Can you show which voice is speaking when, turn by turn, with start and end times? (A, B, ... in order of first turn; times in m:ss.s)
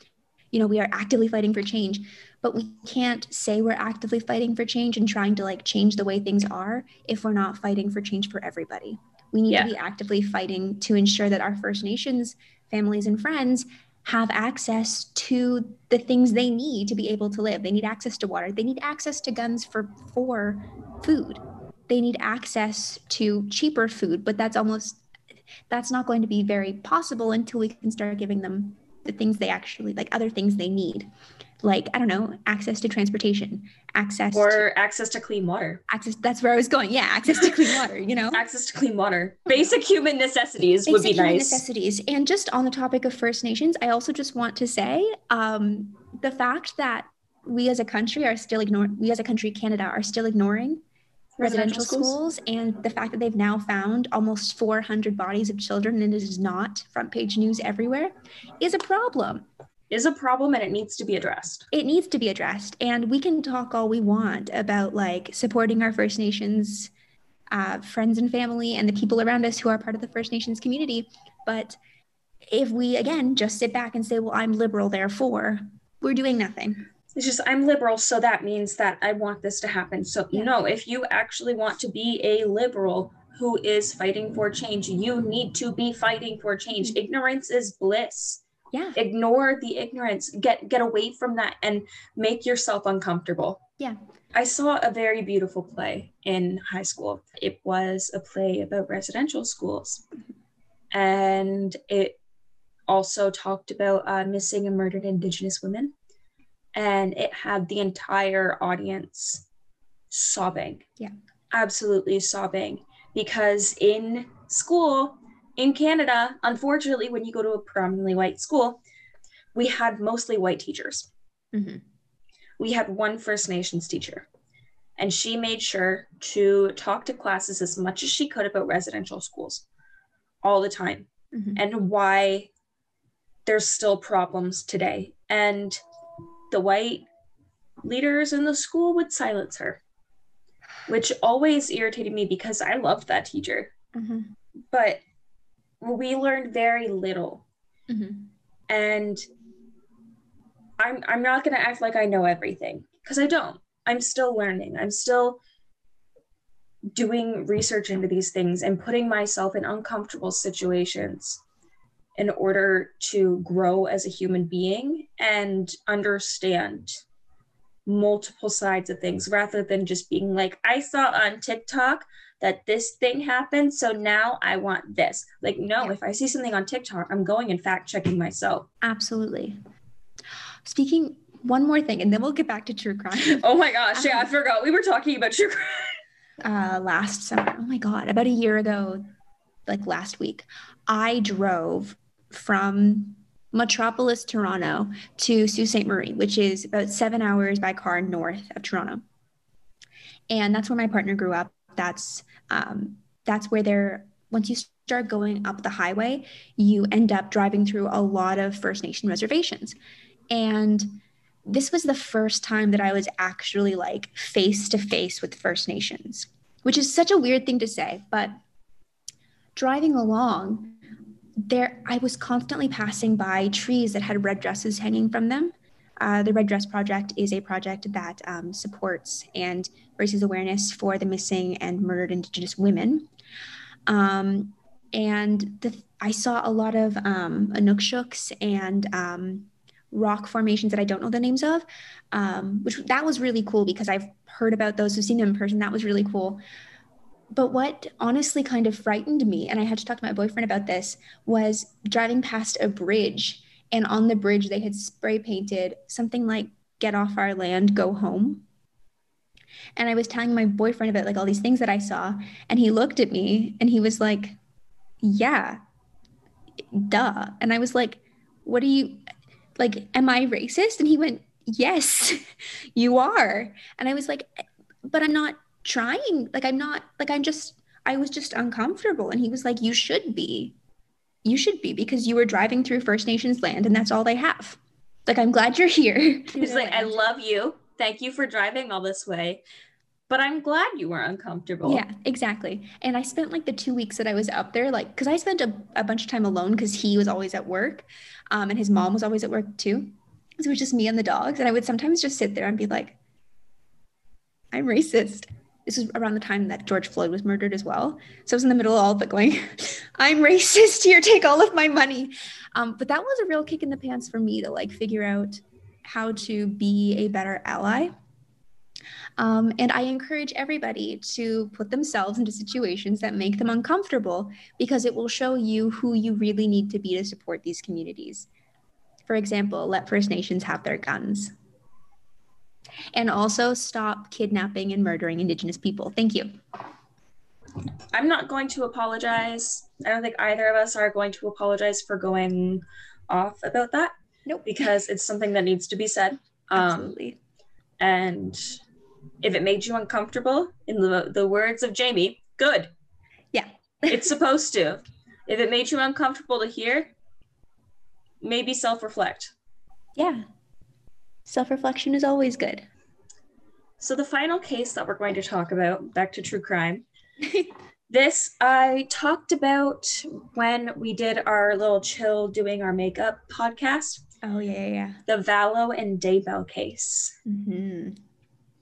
0:00.5-0:25.0 A
0:25.7-0:31.1 A
0:31.6-0:34.6 A
0:34.3-0:35.8 B
0:35.9-0:38.4 A
0:38.3-0:41.6 B
0:39.5-0:39.8 A
0:40.9-0:50.8 A
0:51.4-0:52.2 B
0:51.4-0:59.5 A
0:59.9-1:01.7 B
1:01.7-1:06.9 A
1:07.5-1:11.8 A
1:12.5-1:16.9 A
1:17.2-1:28.4 B
1:28.7-1:29.0 A
1:29.0-1:33.6 B
1:34.3-1:40.0 B
1:40.9-1:42.2 B
1:42.9-1:45.9 B
1:46.8-1:49.4 B
1:50.1-1:50.8 B
1:51.5-1:58.8 B
1:59.5-2:01.1 B
2:01.5-2:01.8 A
2:02.6-2:04.3 B
2:05.0-2:09.6 B
2:10.4-2:12.5 B
2:11.3-2:11.6 A
2:13.5-2:15.8 B
2:16.5-2:17.0 B
2:17.8-2:19.8 B
2:20.9-2:23.7 B
2:23.9-2:24.3 A
2:24.7-2:25.0 B
2:25.8-2:27.4 B
2:27.9-2:28.3 A
2:28.7-2:29.2 B
2:30.8-2:35.4 B
2:36.9-2:41.4 B
2:42.2-2:47.0 B
2:47.9-2:58.7 B
2:58.8-2:59.6 A
3:00.6-3:03.4 A
3:03.2-3:06.0 B
3:04.0-3:04.3 A
3:06.4-3:09.0 A
3:09.7-3:19.0 A
3:20.3-3:29.8 A
3:30.3-3:30.9 A
3:31.4-3:38.3 A
3:39.6-3:40.8 A
3:41.4-3:53.1 A
3:53.9-4:06.4 A
4:07.3-4:18.4 A
4:19.8-4:24.4 A
4:25.0-4:25.6 A
4:26.7-4:29.1 A
4:29.6-4:32.2 A
4:32.8-4:40.6 A
4:41.2-4:47.0 A
4:46.4-4:49.4 B
4:50.1-4:51.8 B
4:51.6-5:03.0 A
5:04.5-5:17.9 A
5:19.2-5:28.3 A
5:29.1-5:31.3 A
5:32.9-5:36.4 A
5:37.9-5:43.9 B
5:44.3-5:44.7 A
5:44.4-5:47.0 B
5:46.5-5:47.2 A
5:47.8-5:48.6 B
5:49.2-5:52.7 B
5:53.3-5:54.0 A
5:53.9-5:56.9 B
5:58.2-5:59.3 B
6:00.0-6:00.3 A
6:01.3-6:02.7 A
6:03.8-6:06.8 B
6:07.2-6:07.5 A
6:07.9-6:14.0 B
6:14.2-6:15.0 A
6:15.1-6:17.2 B
6:17.3-6:18.0 A